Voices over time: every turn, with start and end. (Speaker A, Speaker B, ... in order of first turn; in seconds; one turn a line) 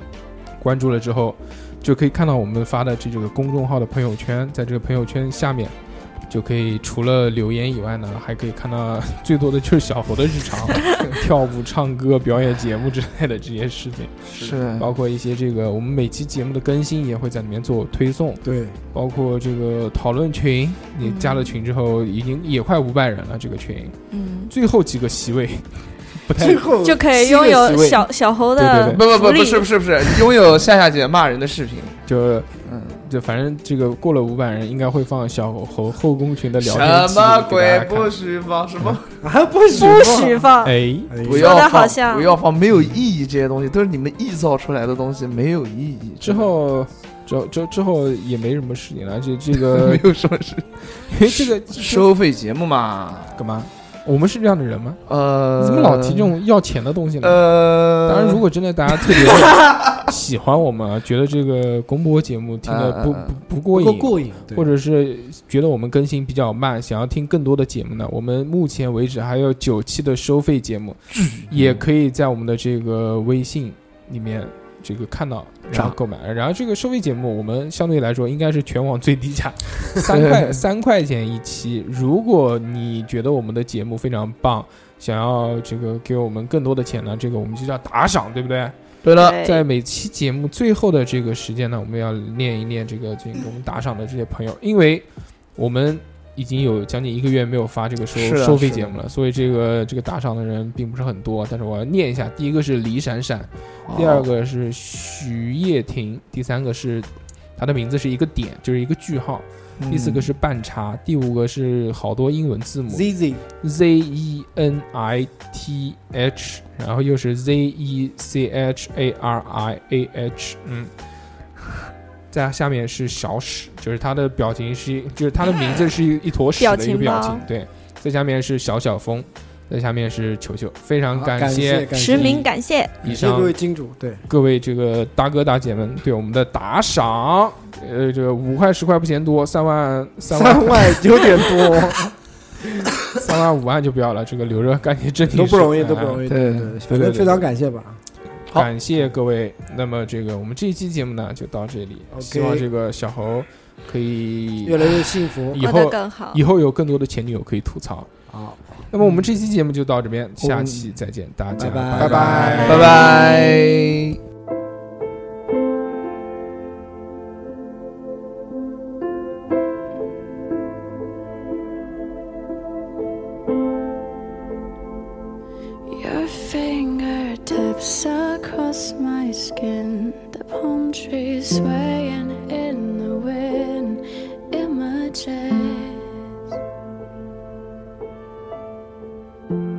Speaker A: 0.6-5.7
Speaker A: 6.3-24.0
Speaker B: 14.3-14.9
Speaker C: 18.4-18.8
Speaker D: 21.0-21.6
Speaker D: 24.1-24.5
Speaker A: 24.5-26.7
Speaker C: 26.4-28.1
Speaker D: 26.8-29.7
Speaker A: 28.6-29.0
Speaker B: 28.9-31.9
Speaker A: 32.1-32.5
Speaker B: 32.6-33.1
Speaker A: 33.0-38.1
Speaker B: 36.6-39.2
Speaker C: 39.2-40.5
Speaker D: 39.7-40.8
Speaker A: 40.6-41.1
Speaker C: 41.1-41.6
Speaker B: 41.2-46.5
Speaker D: 41.3-42.4
Speaker A: 46.2-50.0
Speaker B: 49.6-53.4
Speaker A: 51.1-52.1
Speaker A: 53.4-55.0
Speaker B: 55.1-56.3
Speaker A: 55.6-57.4
Speaker B: 57.2-58.4
Speaker A: 58.0-113.1
Speaker B: 59.0-59.9
Speaker B: 62.7-63.4
Speaker C: 63.7-64.7
Speaker B: 71.1-71.8
Speaker B: 75.7-76.0
Speaker B: 80.1-80.6
Speaker B: 89.0-89.4
Speaker D: 89.2-89.6
Speaker B: 98.2-99.0
Speaker B: 103.9-104.3
Speaker B: 109.8-110.3
Speaker C: 112.9-113.4
Speaker A: 113.6-120.9
Speaker A: 122.3-132.4
Speaker D: 125.5-125.8
Speaker D: 126.6-127.5
Speaker C: 131.1-132.5
Speaker D: 131.9-133.0
Speaker A: 133.0-133.6
Speaker C: 133.0-134.2
Speaker A: 134.3-141.4
Speaker C: 140.3-142.1
Speaker A: 143.1-146.2
Speaker C: 145.3-148.0
Speaker B: 146.3-147.4
Speaker A: 148.5-158.1
Speaker C: 152.1-152.7
Speaker C: 154.7-155.6
Speaker D: 155.6-156.4
Speaker C: 158.3-158.8
Speaker A: 158.9-163.2
Speaker B: 159.0-159.2
Speaker B: 160.4-160.9
Speaker C: 161.6-163.2
Speaker B: 162.0-164.2
Speaker E: 175.9-186.1